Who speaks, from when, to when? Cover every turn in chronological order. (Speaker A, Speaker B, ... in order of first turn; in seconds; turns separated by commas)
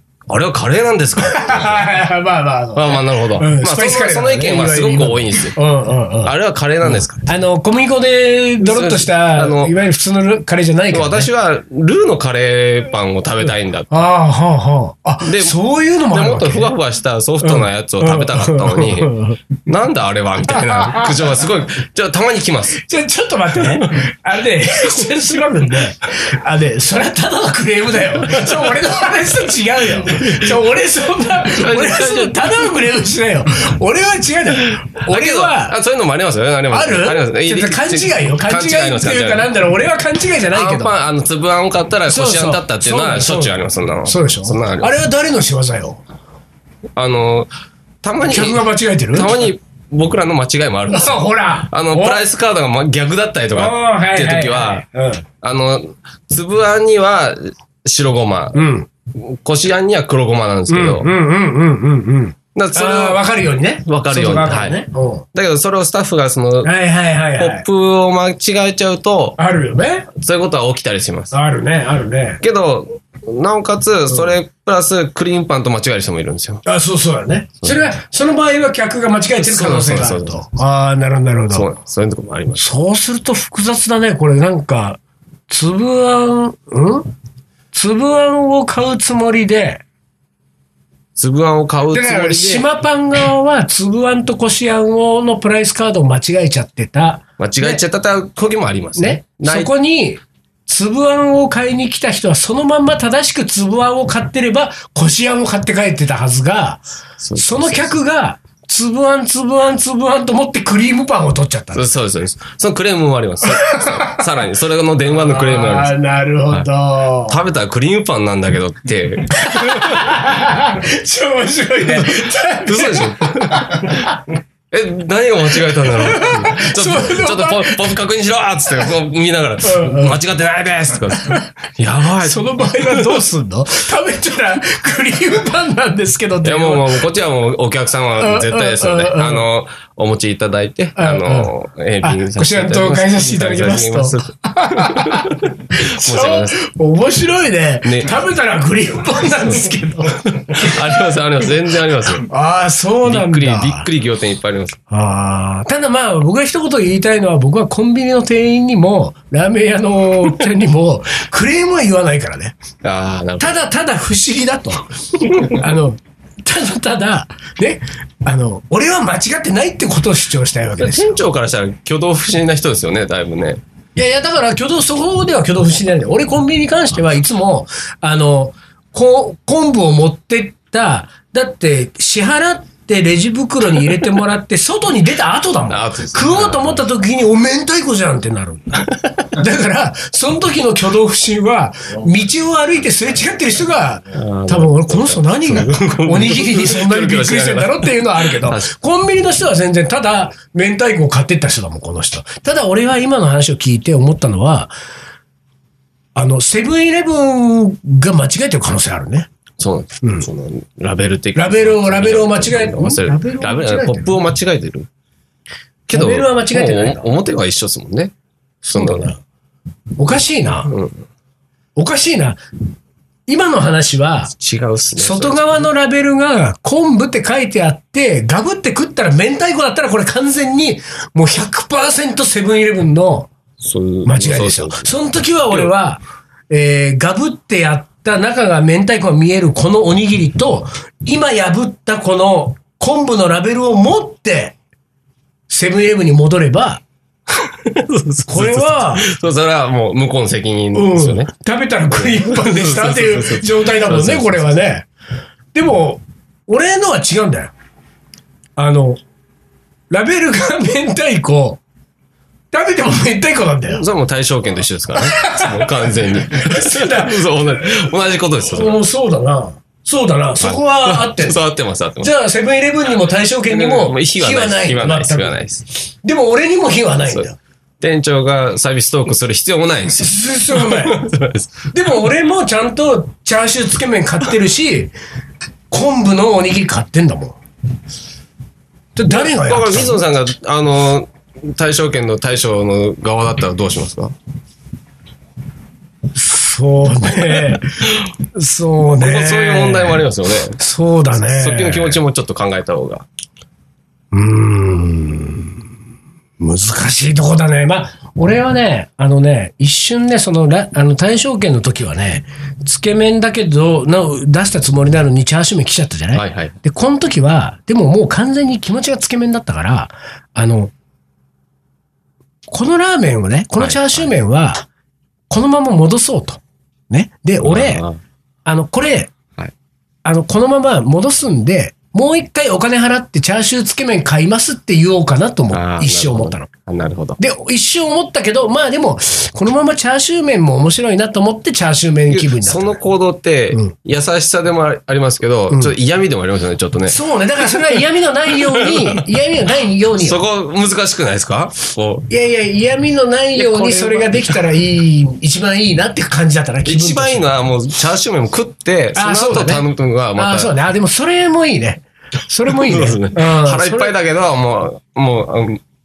Speaker A: 0.3-1.8, Speaker B: 1.2-6.3, Speaker A: 2.7-5.6, Speaker A: 6.2-7.3, Speaker B: 6.8-11.3, Speaker A: 8.6-9.7, Speaker A: 10.9-13.9, Speaker B: 13.9-16.7, Speaker A: 15.2-15.6, Speaker A: 16.1-22.8, Speaker B: 17.4-19.4, Speaker B: 20.5-21.2, Speaker B: 22.8-35.8, Speaker A: 28.2-28.8, Speaker A: 30.0-30.6, Speaker A: 31.4-32.7, Speaker A: 35.0-39.5, Speaker B: 36.7-40.9, Speaker A: 40.5-44.9, Speaker B: 42.1-46.0, Speaker A: 47.0-47.5, Speaker A: 48.0-54.8, Speaker B: 48.2-49.4, Speaker B: 50.9-52.2, Speaker B: 53.5-55.2, Speaker A: 55.4-58.6, Speaker B: 58.5-58.9, Speaker A: 59.1-61.1, Speaker B: 60.7-65.2, Speaker A: 62.5-63.2, Speaker A: 63.8-64.8, Speaker A: 65.3-66.7, Speaker B: 66.6-67.6, Speaker A: 67.4-69.4, Speaker B: 69.4-70.1, Speaker A: 70.1-71.3, Speaker B: 71.3-72.4, Speaker A: 72.4-76.6, Speaker B: 76.6-81.7, Speaker A: 79.4-80.4, Speaker A: 81.5-82.6, Speaker B: 82.5-87.1, Speaker B: 87.7-89.8, Speaker A: 91.2-92.7, Speaker B: 91.9-97.8, Speaker A: 97.4-99.7, Speaker B: 99.0-106.8, Speaker A: 107.2-108.0, Speaker B: 107.3-111.9, Speaker A: 111.7-116.0, Speaker B: 113.5-114.2, Speaker B: 115.1-117.4, Speaker A: 117.2-120.1, Speaker B: 119.4-124.2, Speaker A: 121.9-124.1, Speaker A: 124.7-133.2, Speaker B: 125.8-128.0, Speaker B: 129.6-130.2, Speaker B: 131.1-131.5, Speaker B: 132.2-137.0, Speaker A: 136.4-146.6, Speaker B: 138.2-139.4, Speaker B: 140.9-150.9, Speaker A: 147.8-148.1, Speaker A: 150.2-152.3, Speaker B: 152.2-153.9, Speaker A: 153.0-154.8, Speaker B: 154.9-162.6, Speaker A: 162.8-163.6, Speaker B: 163.4-171.2, Speaker A: 170.8-173.6, Speaker B: 173.9-204.7, Speaker A: 185.7-186.8, Speaker A: 194.1-198.7, Speaker B: 206.1-209.3, Speaker A: 209.6-214.9, Speaker B: 210.0-210.3, Speaker B: 211.3-214.2, Speaker A: 215.9-218.1, Speaker B: 215.9-217.1, Speaker B: 218.6-219.2, Speaker A: 218.7-219.1, Speaker B: 220.0-220.7, Speaker A: 220.7-221.0, Speaker B: 221.8-222.4, Speaker B: 223.3-224.3, Speaker A: 224.3-225.6, Speaker B: 224.9-233.3, Speaker A: 233.6-235.7, Speaker B: 234.0-244.6, Speaker B: 245.5-246.8, Speaker A: 247.4-251.3, Speaker B: 248.3-249.1, Speaker B: 250.7-254.9, Speaker A: 251.9-254.5, Speaker B: 255.5-257.5, Speaker B: 258.6-259.0, Speaker B: 259.9-261.6, Speaker B: 262.5-263.8, Speaker A: 263.7-268.8, Speaker B: 264.9-267.8, Speaker B: 268.5-271.4, Speaker A: 270.4-272.1, Speaker B: 272.0-275.4, Speaker A: 273.4-275.6, Speaker B: 276.0-277.4, Speaker A: 277.8-281.6, Speaker B: 280.0-281.1, Speaker B: 281.7-284.9, Speaker B: 285.7-287.4, Speaker B: 288.9-290.0, Speaker A: 289.1-294.1, Speaker B: 296.1-302.0, Speaker A: 299.0-300.6, Speaker A: 301.1-303.1, Speaker B: 304.1-305.6, Speaker B: 306.4-320.7, Speaker A: 316.1-316.5, Speaker B: 322.5-324.7, Speaker A: 323.6-324.1, Speaker B: 325.3-327.8, Speaker A: 327.4-328.0, Speaker B: 328.4-329.1, Speaker B: 330.0-336.5, Speaker A: 335.5-337.2, Speaker B: 337.2-342.8, Speaker A: 342.1-349.1, Speaker B: 346.9-350.2, Speaker A: 349.9-352.1, Speaker B: 352.1-357.3, Speaker A: 353.3-354.4, Speaker A: 356.6-360.5, Speaker B: 358.9-363.9, Speaker A: 362.4-365.6